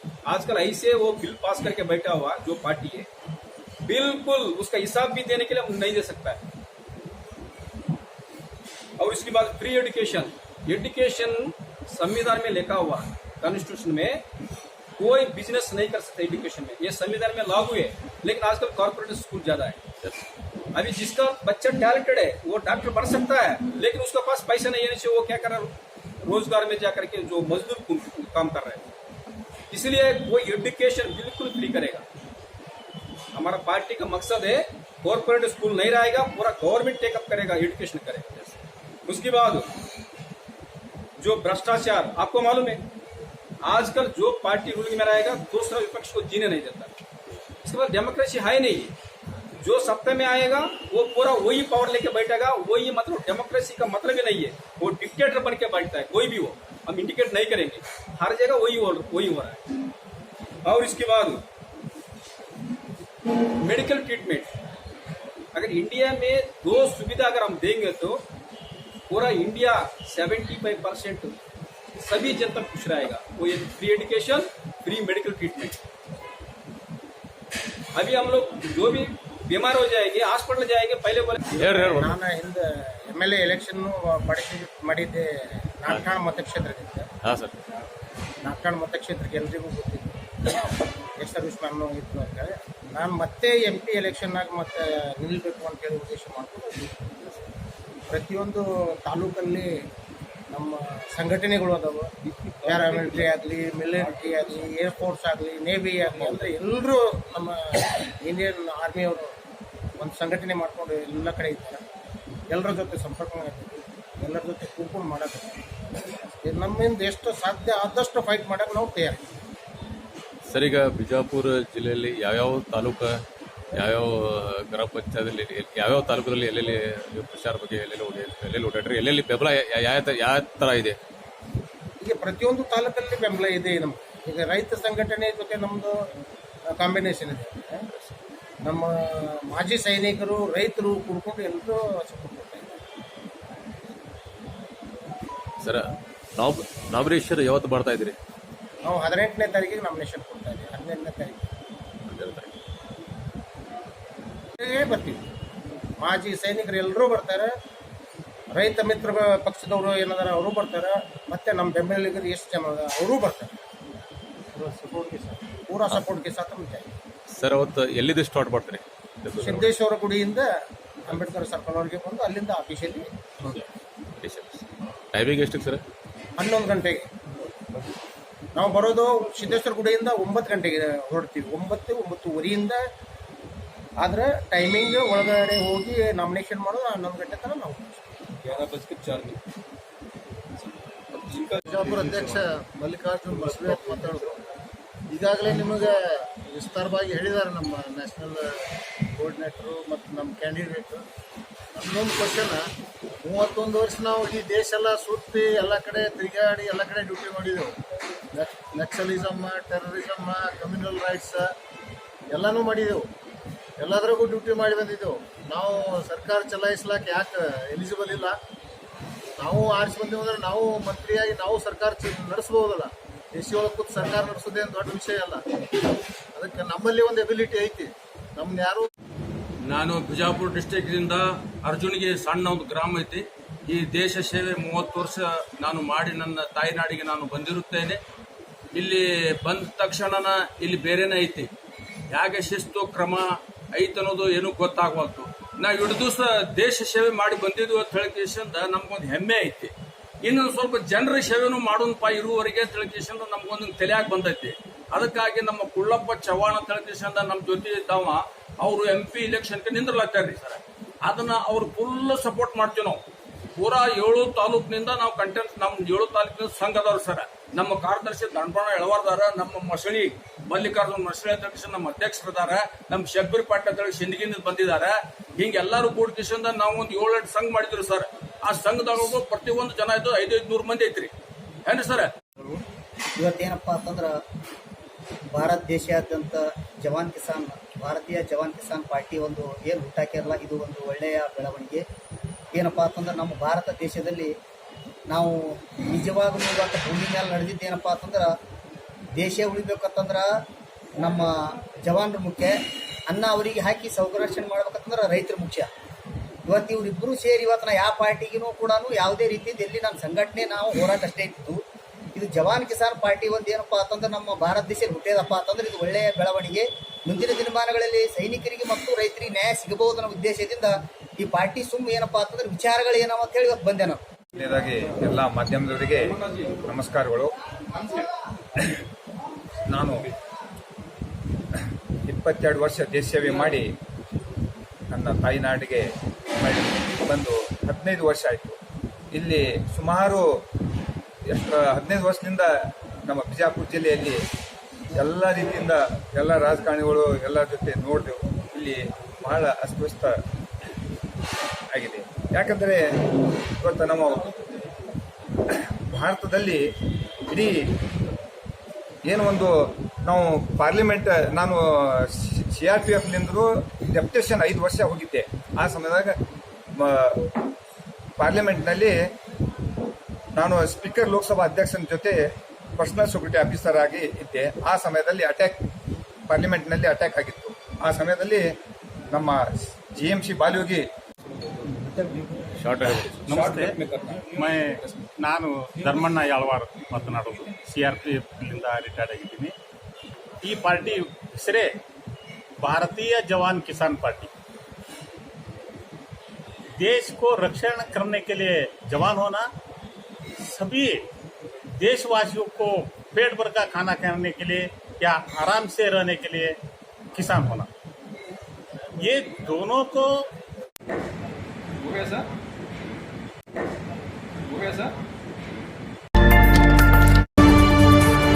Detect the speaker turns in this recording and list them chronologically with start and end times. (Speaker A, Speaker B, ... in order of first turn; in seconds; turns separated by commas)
Speaker A: 0.3-3.1, Speaker A: 3.9-6.4, Speaker A: 9.0-14.2, Speaker A: 15.0-19.8, Speaker A: 20.7-25.7, Speaker A: 26.2-28.9, Speaker A: 29.7-32.0, Speaker A: 33.3-39.7, Speaker A: 41.2-42.8, Speaker A: 43.6-47.0, Speaker A: 47.6-48.9, Speaker A: 49.6-59.6, Speaker A: 60.6-61.4, Speaker A: 63.6-64.5, Speaker A: 65.5-68.2, Speaker A: 69.1-71.4, Speaker A: 72.0-75.8, Speaker A: 77.9-81.8, Speaker B: 81.5-82.2, Speaker C: 81.8-87.1, Speaker B: 87.2-87.6, Speaker C: 88.4-90.2, Speaker C: 91.2-97.5, Speaker C: 98.1-99.7, Speaker C: 100.5-109.3, Speaker C: 110.0-111.8, Speaker C: 112.5-115.6, Speaker C: 116.4-119.3, Speaker B: 120.5-123.2, Speaker B: 123.7-131.0, Speaker C: 132.0-136.0, Speaker C: 136.7-137.8, Speaker B: 137.9-138.2, Speaker C: 138.6-142.7, Speaker B: 145.6-148.2, Speaker C: 148.8-151.4, Speaker B: 152.1-152.5, Speaker C: 154.6-155.2, Speaker C: 156.0-157.5, Speaker C: 158.5-163.6, Speaker C: 164.6-166.9, Speaker B: 167.3-169.7, Speaker C: 169.3-170.5, Speaker C: 171.1-173.6, Speaker B: 174.1-175.8, Speaker C: 176.4-177.1, Speaker C: 178.5-182.8, Speaker C: 184.0-188.1, Speaker A: 188.4-189.4, Speaker A: 190.6-191.8, Speaker D: 191.7-192.5, Speaker D: 193.0-193.9, Speaker C: 193.6-194.3, Speaker D: 195.1-195.9, Speaker C: 195.5-195.8, Speaker D: 196.6-198.4, Speaker C: 197.9-198.3, Speaker C: 199.2-201.0, Speaker D: 199.4-200.6, Speaker D: 201.8-202.6, Speaker D: 203.2-207.7, Speaker C: 203.6-204.0, Speaker C: 208.3-208.6, Speaker D: 208.8-211.4, Speaker C: 209.2-210.4, Speaker C: 212.3-212.9, Speaker D: 212.4-213.0, Speaker D: 213.8-218.3, Speaker D: 219.4-225.4, Speaker D: 226.3-228.8, Speaker E: 229.6-238.0, Speaker E: 238.7-241.5, Speaker E: 242.1-263.0, Speaker E: 263.6-281.1, Speaker E: 281.6-282.1, Speaker F: 283.2-284.1, Speaker F: 285.3-291.8, Speaker F: 292.5-294.3, Speaker F: 295.1-298.3, Speaker F: 299.2-300.2, Speaker F: 301.0-302.6, Speaker F: 303.1-305.7, Speaker F: 306.5-311.6, Speaker F: 312.1-324.0, Speaker G: 324.3-327.3, Speaker A: 325.9-326.6, Speaker G: 329.7-330.1, Speaker G: 331.6-333.7, Speaker G: 334.9-338.6, Speaker G: 339.1-340.4, Speaker G: 341.3-344.2, Speaker G: 344.9-350.2, Speaker G: 351.7-353.0, Speaker G: 353.6-354.3, Speaker G: 355.5-356.6, Speaker G: 357.3-357.7, Speaker G: 359.1-366.2, Speaker G: 366.8-367.3, Speaker G: 368.2-369.0, Speaker G: 370.3-375.6, Speaker G: 376.3-378.4, Speaker G: 379.1-380.9, Speaker A: 381.4-382.2, Speaker B: 382.6-383.2, Speaker A: 382.8-385.0, Speaker H: 383.0-383.8, Speaker H: 384.3-389.5, Speaker H: 390.4-391.8, Speaker H: 392.6-394.3, Speaker H: 396.8-399.5, Speaker H: 400.4-401.1, Speaker H: 401.8-406.6, Speaker H: 407.1-407.7, Speaker H: 409.0-410.3, Speaker A: 411.8-412.3, Speaker A: 414.4-414.9